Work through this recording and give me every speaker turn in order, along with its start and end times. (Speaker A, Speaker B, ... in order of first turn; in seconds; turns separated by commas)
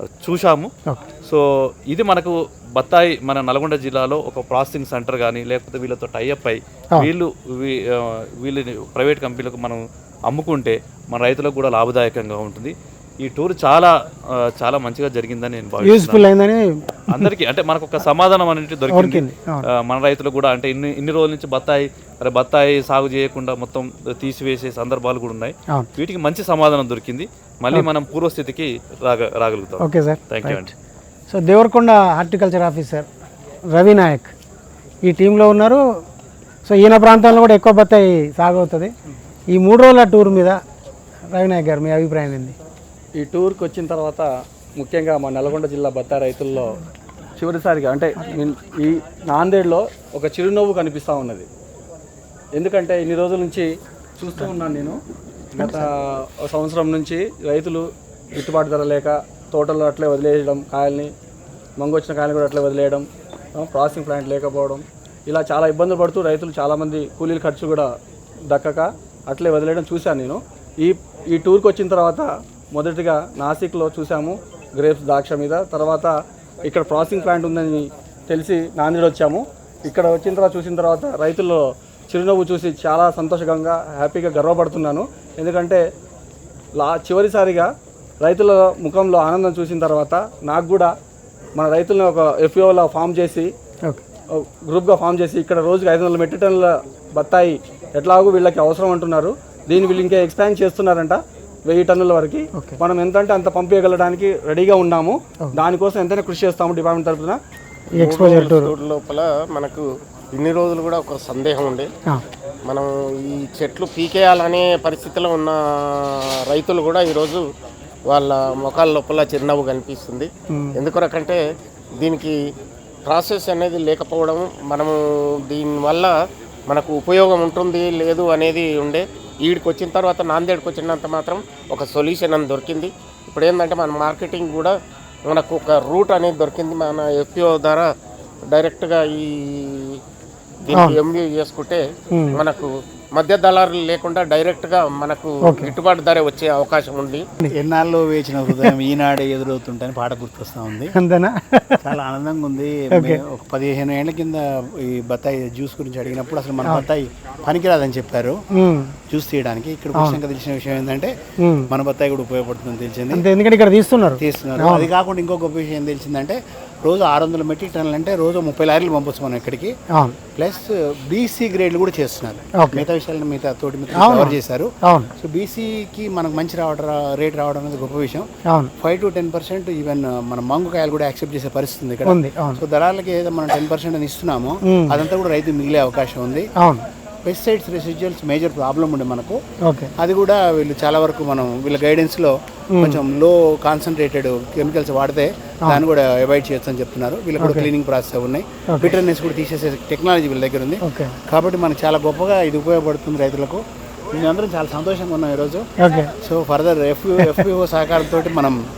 Speaker A: 0.2-0.7, Speaker A: 1.2-13.9, Speaker A: 14.6-16.3, Speaker B: 15.8-17.3, Speaker A: 17.1-30.7, Speaker B: 18.9-19.6, Speaker B: 29.8-30.7, Speaker B: 31.3-33.1, Speaker B: 33.7-34.3, Speaker B: 35.0-35.8, Speaker B: 36.6-38.9, Speaker B: 39.5-40.6, Speaker B: 41.3-42.5, Speaker C: 43.1-46.8, Speaker C: 47.4-51.5, Speaker C: 52.5-55.0, Speaker C: 55.5-61.1, Speaker B: 55.6-55.9, Speaker C: 61.8-67.9, Speaker C: 68.5-85.8, Speaker C: 86.7-87.7, Speaker C: 88.2-90.9, Speaker C: 91.5-93.5, Speaker C: 94.3-107.4, Speaker B: 102.5-102.8, Speaker B: 107.9-108.7, Speaker D: 107.9-111.9, Speaker D: 112.6-117.4, Speaker D: 118.1-121.4, Speaker B: 120.5-120.8, Speaker D: 122.0-122.4, Speaker D: 123.0-125.0, Speaker D: 125.5-126.1, Speaker D: 126.7-134.7, Speaker D: 135.3-137.9, Speaker D: 138.5-140.0, Speaker D: 140.6-141.8, Speaker B: 140.7-141.0, Speaker B: 142.1-142.4, Speaker D: 142.3-147.2, Speaker B: 145.4-145.7, Speaker E: 147.5-150.9, Speaker B: 150.9-151.8, Speaker E: 151.8-158.4, Speaker B: 158.6-158.9, Speaker E: 159.1-161.1, Speaker B: 159.9-160.2, Speaker E: 161.7-163.2, Speaker B: 163.1-164.9, Speaker E: 164.2-169.7, Speaker E: 170.3-178.3, Speaker B: 172.6-172.9, Speaker B: 173.9-175.1, Speaker E: 178.8-186.5, Speaker B: 182.0-182.6, Speaker B: 184.7-185.0, Speaker E: 187.2-189.4, Speaker B: 189.6-189.9, Speaker E: 190.0-205.7, Speaker B: 192.7-193.0, Speaker B: 197.4-197.7, Speaker B: 200.8-201.1, Speaker B: 205.8-206.1, Speaker E: 206.2-208.6